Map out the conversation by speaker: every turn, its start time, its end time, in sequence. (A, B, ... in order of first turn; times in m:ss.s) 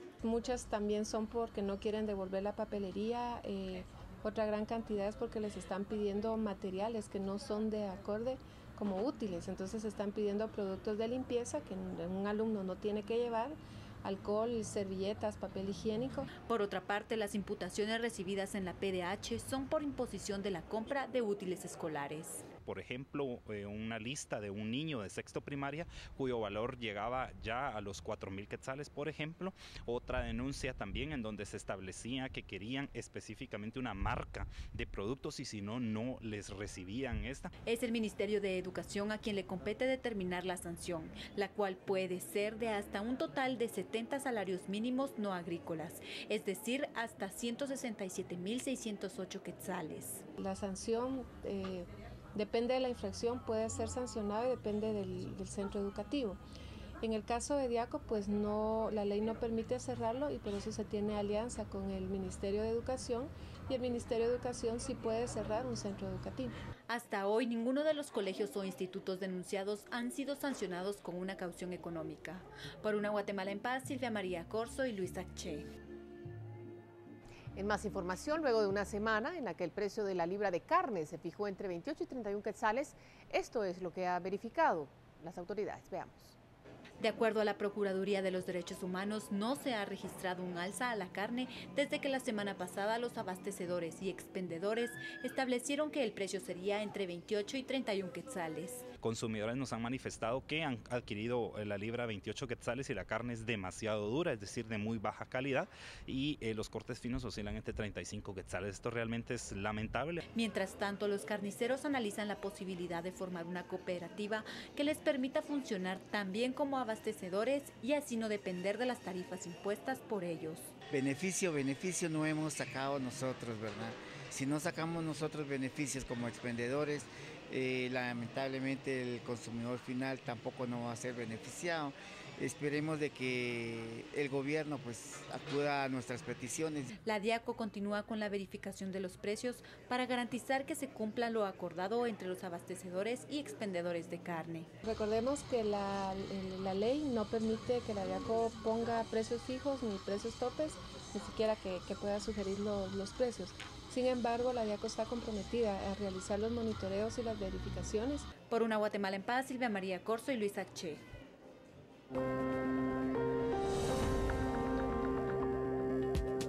0:00.2-0:16.3 A
0:16.5-0:22.4 B
0:22.6-0:37.5 C
0:37.6-0:50.3 B
0:50.4-0:56.4 A
0:57.0-1:06.5 A
1:06.9-1:15.7 B
1:17.6-1:26.4 D
1:27.0-1:38.9 B
1:39.0-1:50.2 C
1:50.3-2:00.7 B
2:00.9-2:16.9 E
2:17.0-2:24.7 B
2:24.8-2:38.3 A
2:38.5-2:41.0 B